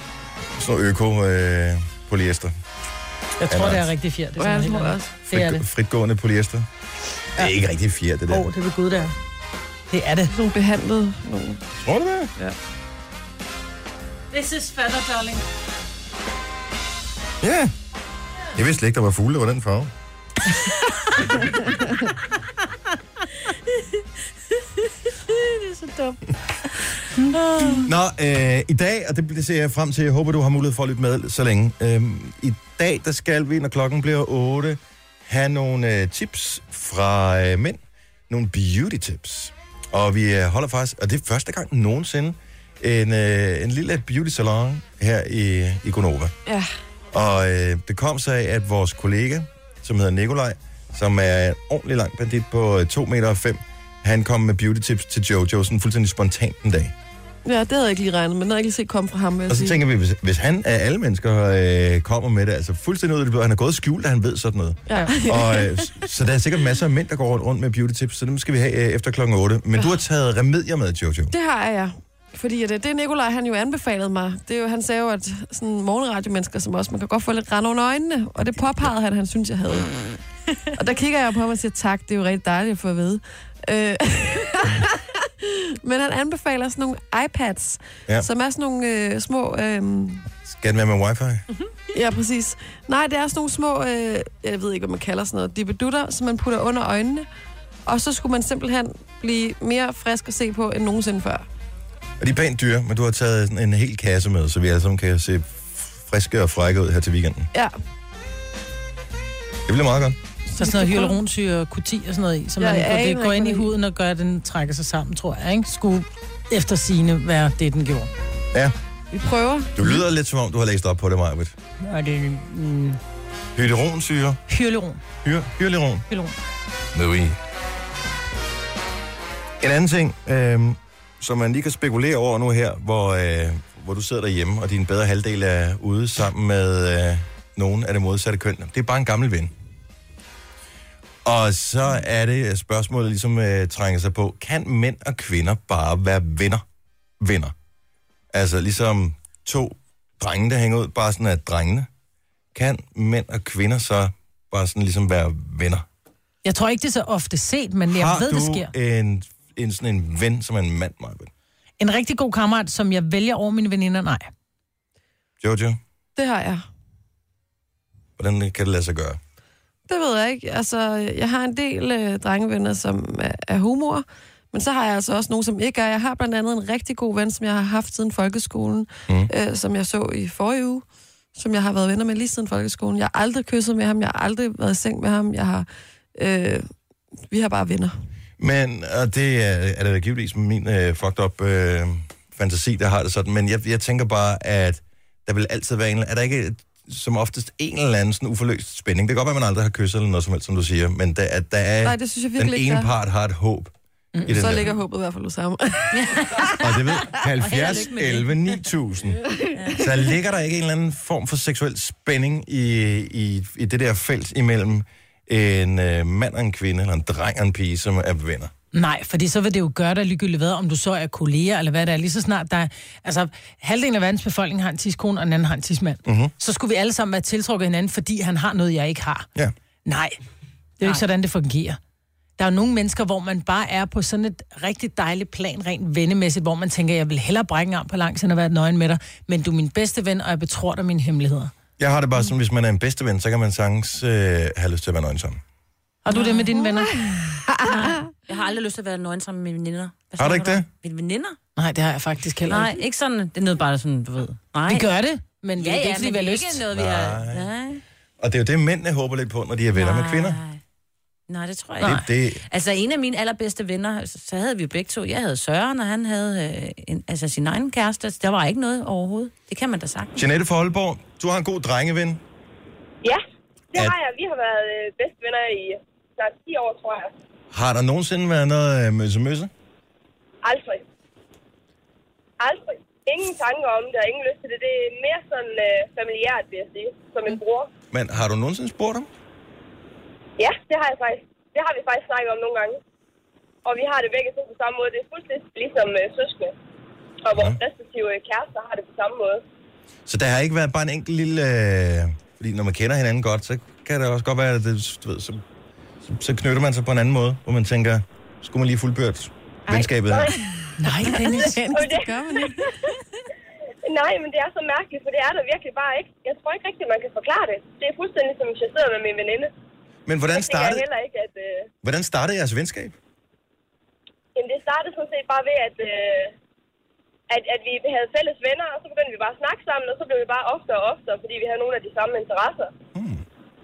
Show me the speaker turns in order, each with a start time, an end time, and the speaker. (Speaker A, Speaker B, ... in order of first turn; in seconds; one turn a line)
Speaker A: 0.5-2.5
Speaker B: 3.4-5.6
Speaker A: 3.5-3.8
Speaker C: 4.4-5.1
Speaker A: 5.2-6.7
Speaker A: 7.4-8.5
Speaker B: 8.3-9.1
Speaker B: 9.9-10.3
Speaker C: 10.3-11.6
Speaker A: 11.8-12.3
Speaker B: 14.3-15.4
Speaker A: 17.4-17.7
Speaker A: 18.5-19.9
Speaker B: 25.6-26.2
Speaker B: 27.2-27.8
Speaker A: 27.8-46.3
Speaker A: 47.1-56.9
Speaker C: 57.4-59.8
Speaker A: 59.5-71.3
Speaker C: 64.9-66.0
Speaker C: 71.3-80.0
Speaker C: 80.7-90.3
Speaker A: 90.5-91.4
Speaker C: 91.9-97.2
Speaker C: 97.8-101.4
Speaker A: 102.2-107.5
Speaker A: 109.7-110.2
Speaker C: 110.5-111.2
Speaker B: 110.6-118.1
Speaker C: 112.6-113.7
Speaker C: 119.1-119.8
Speaker A: 119.8-121.5
Speaker B: 121.8-123.0
Speaker A: 123.5-124.4
Speaker B: 124.5-125.0
Speaker A: 125.2-126.0
Speaker B: 126.1-126.3
Speaker A: 126.9-127.3
Speaker A: 129.6-139.5
Speaker A: 141.2-146.6
Speaker A: 147.2-147.5
Speaker A: 148.3-151.9
Speaker A: 152.5-155.8
Speaker B: 156.4-158.7
Speaker A: 157.9-161.3
Speaker B: 161.8-164.3
Speaker A: 165.4-165.8
Speaker C: 166.2-166.6
Speaker A: 168.2-169.2
Speaker C: 169.9-180.8
Speaker C: 181.3-186.7
Speaker C: 187.3-187.9
Speaker A: 188.4-203.7
Speaker C: 201.8-202.9
Speaker B: 204.1-204.4
Speaker A: 204.2-204.7
Speaker C: 204.3-206.5
Speaker D: 205.9-208.6
Speaker A: 206.6-209.2
Speaker C: 209.2-210.0
Speaker D: 209.5-209.8
Speaker A: 209.8-218.5
Speaker B: 218.7-229.3
Speaker A: 226.1-226.3
Speaker B: 229.8-230.2
Speaker B: 230.8-231.8
Speaker B: 232.4-241.5
Speaker A: 241.8-245.4
Speaker B: 246.0-247.0
Speaker C: 246.8-248.0
Speaker D: 247.6-251.4
Speaker A: 250.2-250.7
Speaker B: 251.6-252.7
Speaker D: 252.5-254.9
Speaker B: 254.7-256.6
Speaker D: 255.6-257.8
Speaker A: 256.7-257.5
Speaker A: 258.2-260.4
Speaker D: 259.7-260.6
Speaker D: 261.3-270.2
Speaker A: 261.8-262.4
Speaker A: 270.1-272.2
Speaker E: 273.7-277.1
Speaker A: 277.5-279.5
Speaker E: 280.4-280.8
Speaker E: 282.4-287.7
Speaker A: 287.9-289.1
Speaker E: 290.4-292.8
Speaker E: 293.6-296.5
Speaker E: 297.2-299.4
Speaker A: 297.3-297.6
Speaker A: 300.1-305.4
Speaker A: 306.0-310.3
Speaker C: 309.7-312.7
Speaker E: 310.0-310.3
Speaker B: 310.8-311.7
Speaker E: 311.2-312.5
Speaker E: 313.8-319.5
Speaker A: 320.1-320.9
Speaker E: 320.3-321.7
Speaker A: 321.8-322.9
Speaker E: 324.3-326.3
Speaker E: 327.3-332.7
Speaker A: 332.9-333.2